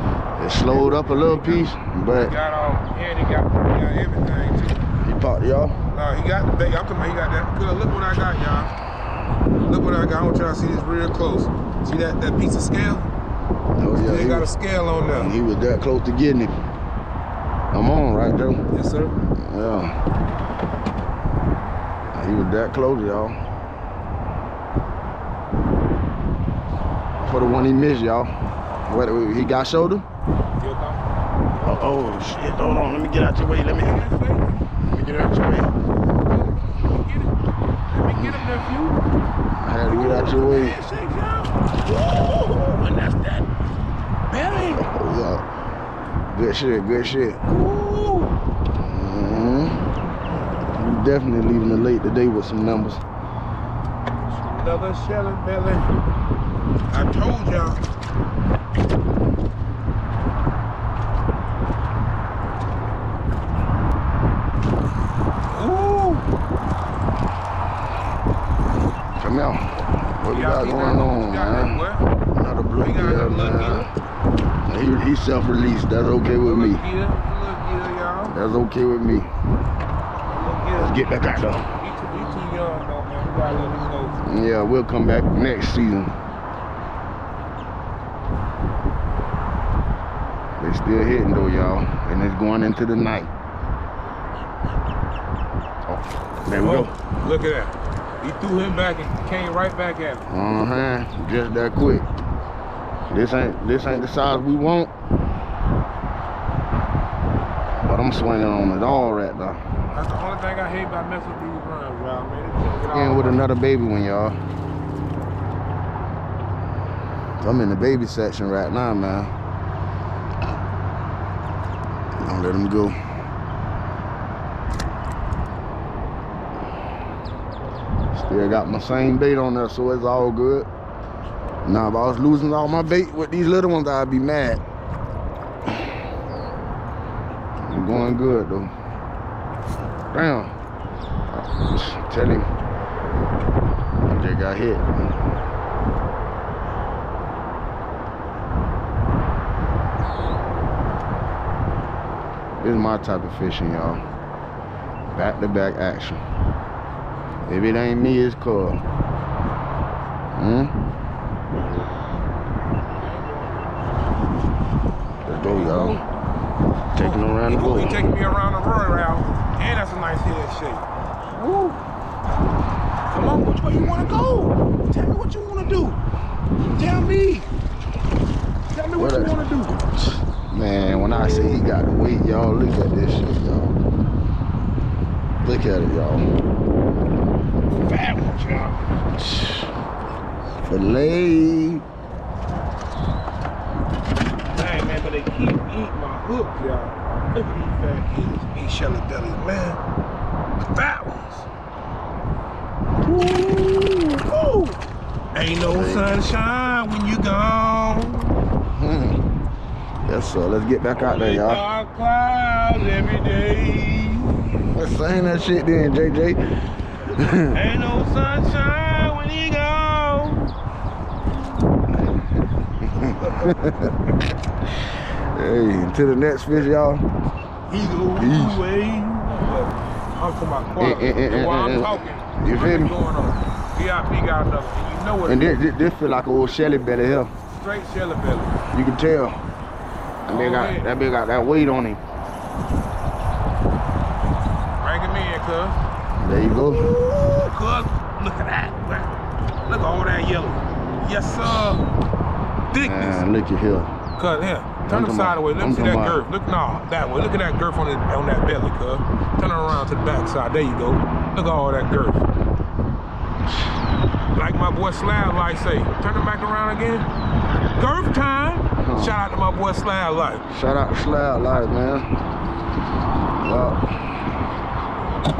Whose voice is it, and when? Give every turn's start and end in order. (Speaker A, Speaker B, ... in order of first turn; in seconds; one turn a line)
Speaker A: 0.4-2.4
Speaker B: 0.6-1.6
Speaker B: 2.2-4.9
Speaker A: 5.0-5.8
Speaker B: 5.9-8.7
Speaker B: 9.7-13.1
Speaker A: 13.8-14.5
Speaker B: 14.0-15.3
Speaker A: 15.1-16.5
Speaker A: 17.7-18.6
Speaker B: 18.7-19.1
Speaker A: 19.4-19.9
Speaker A: 22.1-23.4
Speaker A: 27.2-28.3
Speaker A: 28.9-30.1
Speaker B: 30.6-32.5
Speaker A: 31.6-34.1
Speaker B: 33.8-34.6
Speaker A: 34.9-35.7
Speaker B: 36.0-37.4
Speaker B: 37.9-39.0
Speaker A: 39.6-40.8
Speaker B: 39.8-43.5
Speaker B: 44.3-44.9
Speaker A: 44.7-45.5
Speaker A: 46.3-47.4
Speaker B: 47.5-48.4
Speaker A: 48.8-49.9
Speaker A: 50.7-53.0
Speaker B: 54.3-55.9
Speaker B: 56.9-57.8
Speaker B: 65.5-66.3
Speaker A: 69.2-71.8
Speaker B: 70.3-72.1
Speaker A: 72.3-73.9
Speaker B: 72.8-73.9
Speaker A: 74.7-76.8
Speaker B: 76.4-78.4
Speaker A: 78.3-79.3
Speaker B: 80.3-84.2
Speaker A: 80.8-81.6
Speaker A: 84.2-86.1
Speaker A: 90.6-93.3
Speaker A: 95.9-96.9
Speaker B: 96.5-100.3
Speaker A: 100.3-102.1
Speaker A: 103.1-104.9
Speaker A: 107.9-109.6
Speaker B: 109.9-113.5
Speaker A: 112.9-114.4
Speaker A: 117.4-119.3
Speaker A: 122.2-123.0
Speaker A: 128.1-130.7
Speaker A: 131.7-134.6
Speaker A: 137.6-138.7
Speaker A: 140.1-140.5
Speaker A: 141.3-142.5
Speaker A: 144.1-145.1
Speaker A: 152.6-154.0
Speaker A: 155.1-156.2
Speaker A: 157.5-158.8
Speaker A: 160.3-160.7
Speaker B: 162.9-163.8
Speaker A: 165.2-166.0
Speaker B: 165.3-166.0
Speaker A: 166.9-168.0
Speaker B: 167.0-171.8
Speaker B: 173.1-176.0
Speaker B: 176.7-177.5
Speaker B: 178.7-179.8
Speaker A: 179.0-183.8
Speaker B: 180.8-181.6
Speaker A: 185.4-186.2
Speaker B: 187.7-189.1
Speaker A: 189.1-189.7
Speaker A: 190.7-191.8
Speaker B: 194.5-199.8
Speaker B: 200.7-201.5
Speaker B: 203.0-204.8
Speaker B: 205.3-208.3
Speaker A: 205.7-206.1
Speaker A: 208.8-209.2
Speaker A: 210.1-211.6
Speaker B: 211.0-214.6
Speaker A: 214.7-216.4
Speaker A: 217.1-217.6
Speaker B: 217.4-220.5
Speaker A: 222.8-223.9
Speaker B: 223.0-224.0
Speaker A: 225.2-227.1
Speaker B: 227.7-235.6
Speaker A: 228.1-228.6
Speaker A: 230.8-232.9
Speaker A: 235.3-237.3
Speaker B: 237.6-238.6
Speaker A: 238.7-239.4
Speaker A: 240.3-242.0
Speaker B: 240.3-240.9
Speaker B: 244.8-245.8
Speaker A: 246.2-246.9
Speaker B: 246.4-249.2
Speaker B: 249.7-251.8
Speaker B: 252.7-253.2
Speaker A: 252.8-253.9
Speaker B: 254.2-262.2
Speaker A: 254.9-256.2
Speaker B: 264.4-267.1
Speaker B: 267.8-270.4
Speaker A: 268.8-269.1
Speaker A: 270.5-272.1
Speaker A: 273.4-273.9